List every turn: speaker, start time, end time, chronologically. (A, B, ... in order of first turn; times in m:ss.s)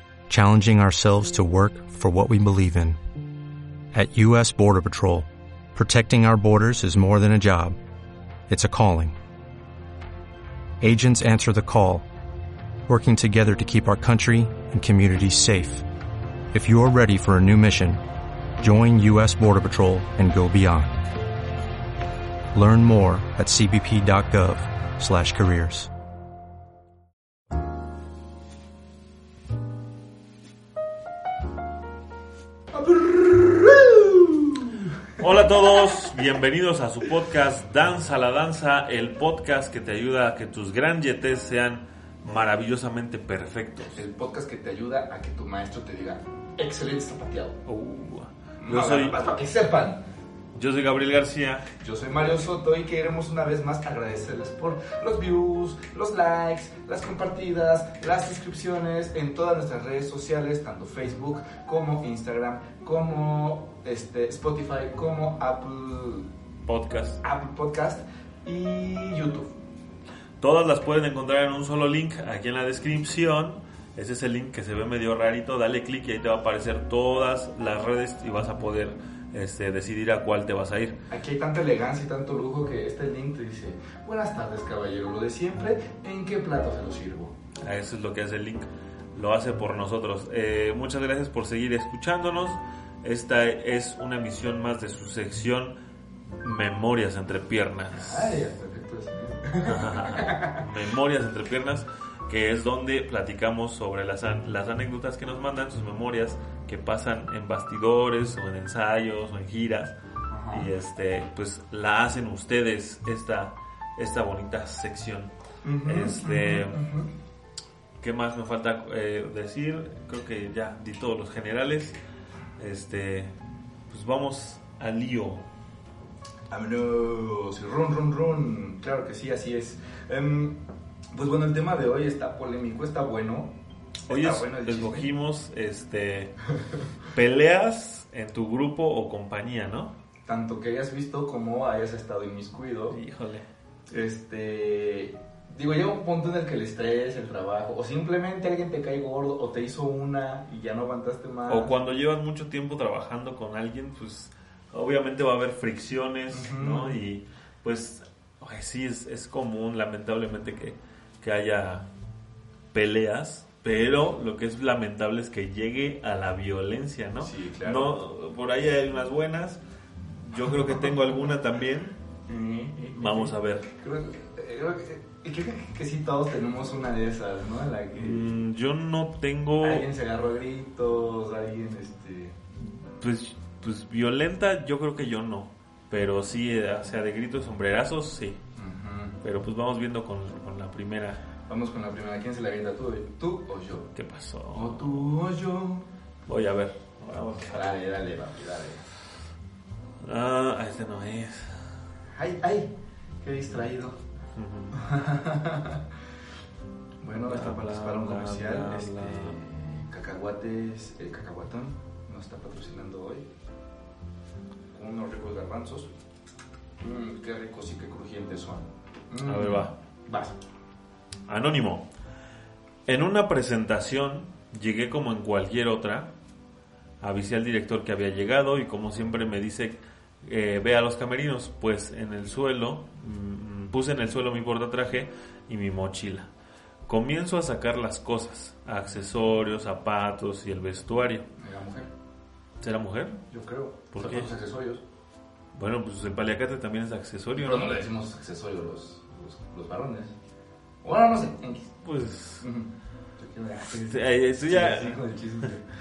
0:00.3-0:03.0 A
0:03.9-0:07.8 A
0:08.5-0:09.2 A
0:10.8-0:12.1 A
0:12.9-0:15.8 A
0:16.5-0:18.0 A
0:18.6-0:21.1 A
0:22.5-0:25.9 A
0:32.7-0:36.1 B
0:35.2-0:44.0 C
0:44.0-0:47.6 B
0:47.6-0:49.2 C
0:48.6-0:50.0 B
0:50.6-0:51.7 C
0:51.8-1:06.3 B
1:06.7-1:07.2 C
1:07.2-1:09.5 B
1:10.4-1:21.0 C
1:21.1-1:27.3 B
1:27.6-1:35.8 C
1:36.4-1:38.5 C
1:37.9-1:40.6 B
1:39.6-1:49.9 C
1:50.3-1:50.7 B
1:50.5-1:55.3 C
1:55.6-1:57.1 B
1:55.9-1:56.8 C
1:58.0-2:02.0 C
2:02.6-2:03.3 C
2:03.9-2:05.4 C
2:06.5-2:10.6 B
2:11.1-2:13.5 B
2:14.1-2:15.1 B
2:14.1-2:16.4 C
2:17.1-2:19.9 C
2:20.3-2:23.0 B
2:22.9-2:23.5 C
2:23.9-2:31.7 B
2:31.5-2:41.8 C
2:36.3-2:37.0 B
2:42.7-2:49.6 C
2:47.2-2:47.9 B
2:50.1-2:52.0 C
2:52.3-2:58.3 B
2:53.0-2:53.7 C
2:57.9-2:59.9 C
2:59.6-3:02.4 B
3:03.0-3:08.4 C
3:08.6-3:09.2 B
3:09.2-3:11.2 C
3:11.5-3:13.9 B
3:14.0-3:15.1 C
3:14.5-3:15.9 B
3:16.3-3:17.7 C
3:17.5-3:18.9 B
3:20.0-3:21.8 C
3:22.1-3:22.7 B
3:23.2-3:24.0 B
3:24.3-3:24.8 C
3:24.7-3:25.8 B
3:27.0-3:33.3 B
3:27.3-3:29.4 C
3:34.7-3:35.9 B
3:36.8-3:40.4 B
3:39.2-3:39.7 C
3:41.3-3:41.8 C
3:42.9-3:46.1 C
3:47.0-3:56.3 C
3:56.9-4:01.3 C
4:01.4-4:01.9 B
4:02.6-4:03.2 C
4:03.3-4:04.8 B
4:03.9-4:04.3 C
4:05.5-4:07.8 C
4:07.4-4:10.1 B
4:10.8-4:11.7 B
4:11.8-4:12.5 C
4:12.4-4:15.6 B
4:13.7-4:15.0 C